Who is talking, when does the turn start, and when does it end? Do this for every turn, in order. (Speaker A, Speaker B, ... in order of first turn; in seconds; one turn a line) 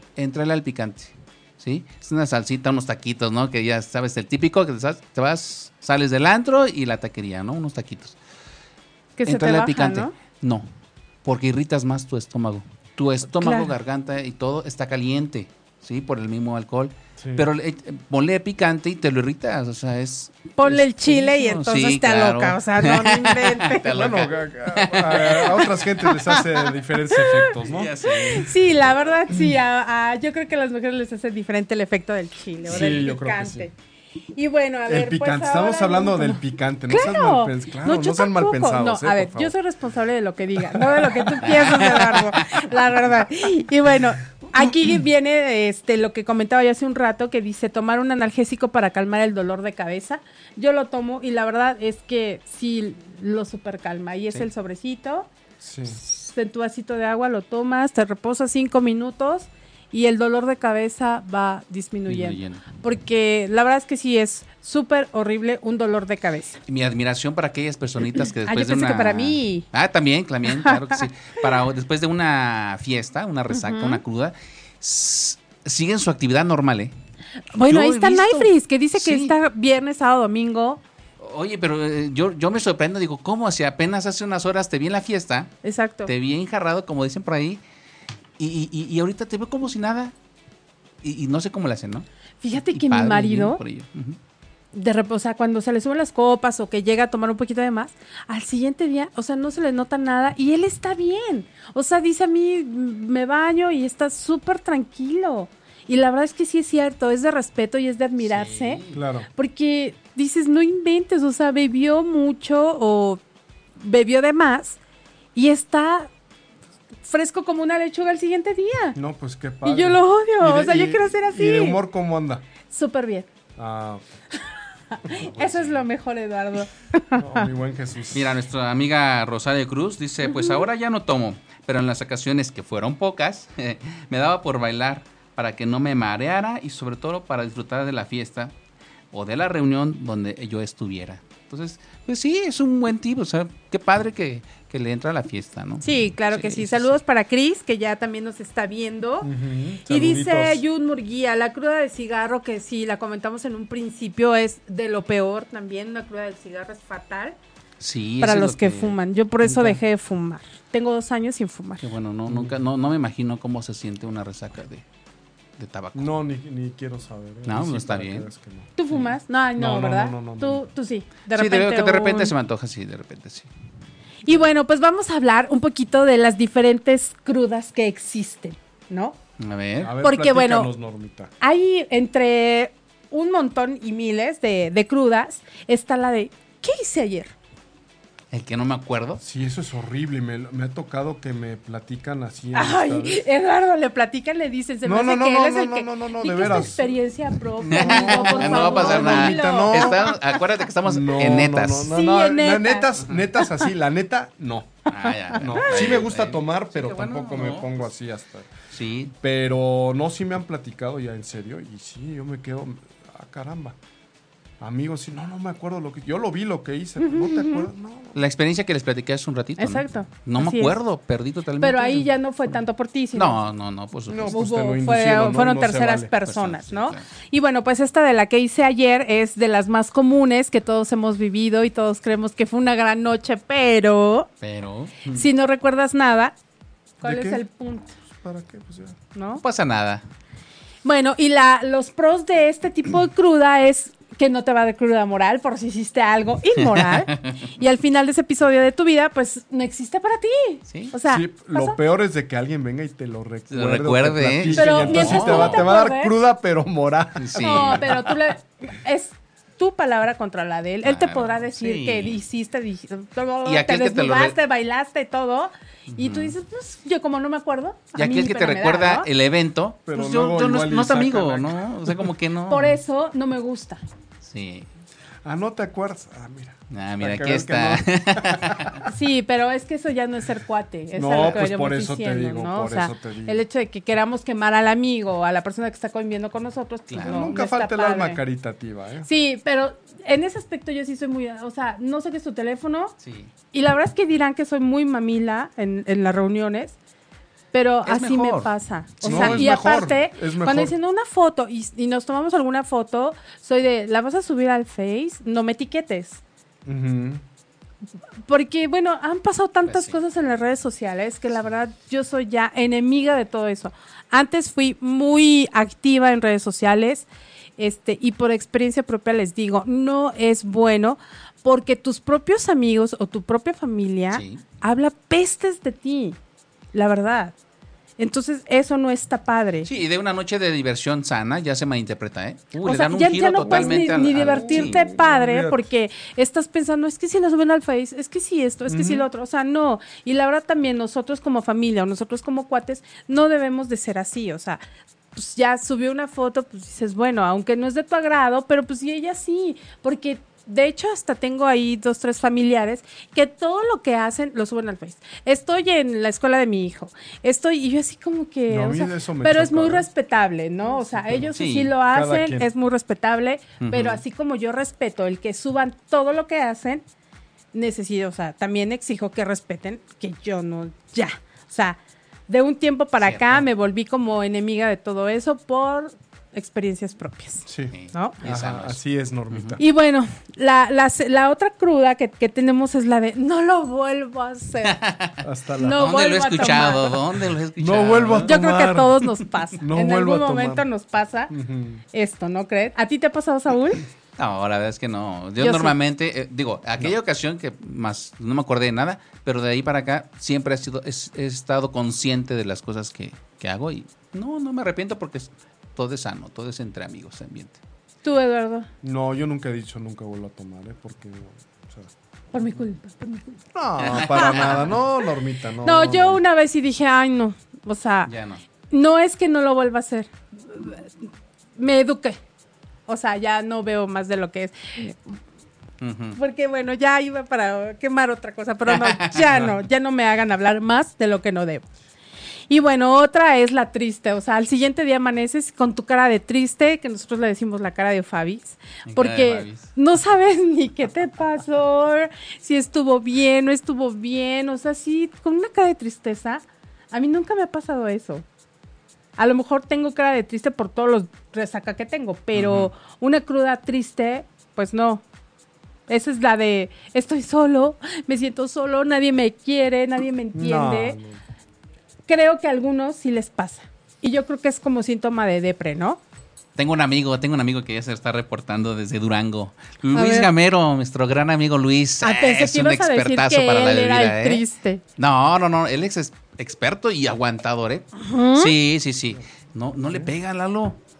Speaker A: 0.2-8.2
Speaker B: 9.2-10.1
Speaker A: 9.3-10.7
Speaker A: 11.2-25.9
Speaker B: 13.4-13.7
Speaker C: 17.2-17.5
Speaker B: 20.6-23.9
Speaker C: 23.9-27.9
Speaker B: 26.3-27.5
Speaker A: 27.6-28.6
Speaker B: 28.1-33.7
Speaker C: 32.7-33.7
Speaker A: 32.7-33.0
Speaker B: 34.4-55.3
Speaker C: 34.9-39.5
Speaker C: 40.8-41.1
Speaker A: 41.4-42.7
Speaker C: 55.6-56.0
Speaker B: 55.9-66.6
Speaker A: 62.1-62.7
Speaker A: 66.7-76.9
Speaker B: 68.2-69.7
Speaker B: 70.6-71.0
Speaker B: 73.5-74.0
Speaker B: 77.5-80.8
Speaker A: 77.6-79.3
Speaker A: 81.2-85.5
Speaker B: 85.6-86.1
Speaker A: 86.1-87.6
Speaker A: 88.4-90.1
Speaker A: 91.0-94.2
Speaker B: 92.4-93.6
Speaker B: 94.7-108.8
Speaker A: 108.2-109.0
Speaker C: 108.9-109.3
Speaker B: 109.3-113.2
Speaker B: 113.8-114.8
Speaker B: 115.3-116.1
Speaker B: 117.0-119.0
Speaker C: 119.0-122.5
Speaker B: 119.6-121.8
Speaker B: 122.7-123.3
Speaker C: 123.6-124.0
Speaker B: 124.9-127.5
Speaker A: 125.1-125.8
Speaker C: 127.2-128.4
Speaker A: 128.1-138.5
Speaker B: 130.2-130.7
Speaker A: 139.1-146.9
Speaker B: 145.8-149.3
Speaker C: 149.2-150.6
Speaker B: 149.8-157.4
Speaker A: 157.8-159.8
Speaker B: 158.2-161.8
Speaker A: 161.8-164.8
Speaker C: 162.3-162.6
Speaker A: 165.6-166.1
Speaker C: 165.9-168.7
Speaker A: 167.5-168.3
Speaker B: 168.8-172.3
Speaker C: 169.6-170.6
Speaker A: 171.3-173.5
Speaker B: 174.2-179.2
Speaker A: 179.4-179.9
Speaker C: 179.8-181.3
Speaker B: 180.0-180.7
Speaker B: 181.4-187.3
Speaker A: 188.3-189.2
Speaker C: 189.2-193.2
Speaker B: 192.5-200.2
Speaker C: 194.8-196.9
Speaker C: 197.6-200.1
Speaker A: 197.7-201.9
Speaker C: 200.8-204.8
Speaker B: 201.9-203.0
Speaker A: 204.9-207.8
Speaker B: 205.1-205.7
Speaker C: 205.4-208.5
Speaker A: 208.7-209.1
Speaker C: 209.2-213.8
Speaker C: 214.6-218.2
Speaker B: 217.0-217.7
Speaker A: 218.2-222.1
Speaker B: 219.6-220.8
Speaker B: 221.6-223.4
Speaker A: 223.1-224.4
Speaker C: 224.1-226.1
Speaker B: 224.3-234.3
Speaker A: 226.2-227.0
Speaker A: 234.4-235.3
Speaker B: 235.1-236.3
Speaker B: 237.0-237.9
Speaker C: 237.0-237.4
Speaker C: 238.1-239.0
Speaker B: 239.1-239.4
Speaker A: 239.4-240.0
Speaker B: 240.8-251.8
Speaker A: 246.6-247.5
Speaker C: 251.1-257.9
Speaker A: 253.5-255.7
Speaker B: 254.5-256.1
Speaker A: 257.2-258.1
Speaker B: 257.4-269.1
Speaker A: 260.8-262.2
Speaker A: 263.4-264.4
Speaker A: 265.9-266.4
Speaker A: 268.0-272.8
Speaker C: 269.9-272.1
Speaker B: 272.5-273.8
Speaker A: 274.2-274.7
Speaker C: 275.2-278.9
Speaker A: 276.7-278.9
Speaker B: 278.9-288.2
Speaker C: 280.9-283.4
Speaker A: 286.9-287.4
Speaker C: 287.1-289.1
Speaker B: 289.1-292.9
Speaker A: 293.0-293.3
Speaker B: 293.5-296.8
Speaker B: 297.5-306.2
Speaker A: 297.9-299.7
Speaker C: 299.0-300.7
Speaker C: 306.7-307.2
Speaker B: 308.3-326.2
Speaker A: 309.7-310.0
Speaker A: 324.1-324.4
Speaker B: 326.7-327.4
Speaker B: 328.0-329.7
Speaker A: 329.6-334.8
Speaker B: 332.6-344.6
Speaker C: 333.4-335.6
Speaker B: 345.1-366.8
Speaker C: 358.5-359.9
Speaker A: 361.3-361.7
Speaker C: 361.9-362.5
Speaker A: 363.6-364.0
Speaker B: 367.5-378.2
Speaker A: 373.0-373.5
Speaker C: 377.5-379.6
Speaker A: 377.7-378.8
Speaker A: 379.3-379.6
Speaker B: 379.6-384.8
Speaker A: 384.6-388.3
Speaker C: 385.2-386.7
Speaker B: 385.6-387.0
Speaker C: 387.6-390.6
Speaker B: 388.3-391.3
Speaker C: 391.3-391.8
Speaker B: 391.9-393.8
Speaker A: 394.2-407.6
Speaker B: 395.4-395.8
Speaker B: 408.0-408.7
Speaker C: 408.8-411.9
Speaker B: 412.3-414.4
Speaker C: 413.5-416.2
Speaker A: 413.8-414.8
Speaker B: 415.6-418.1
Speaker A: 418.1-418.4
Speaker B: 418.7-420.9
Speaker B: 421.6-422.2
Speaker B: 422.9-425.1
Speaker A: 425.8-426.2
Speaker B: 426.1-431.6
Speaker A: 428.7-429.5
Speaker B: 432.5-448.3
Speaker A: 438.9-439.7
Speaker B: 449.2-455.0
Speaker A: 452.3-452.7
Speaker B: 455.9-461.0
Speaker C: 460.3-461.2
Speaker B: 462.1-466.0
Speaker A: 466.6-474.4
Speaker B: 469.9-470.3
Speaker B: 472.0-474.8
Speaker A: 475.0-480.8
Speaker B: 478.0-478.5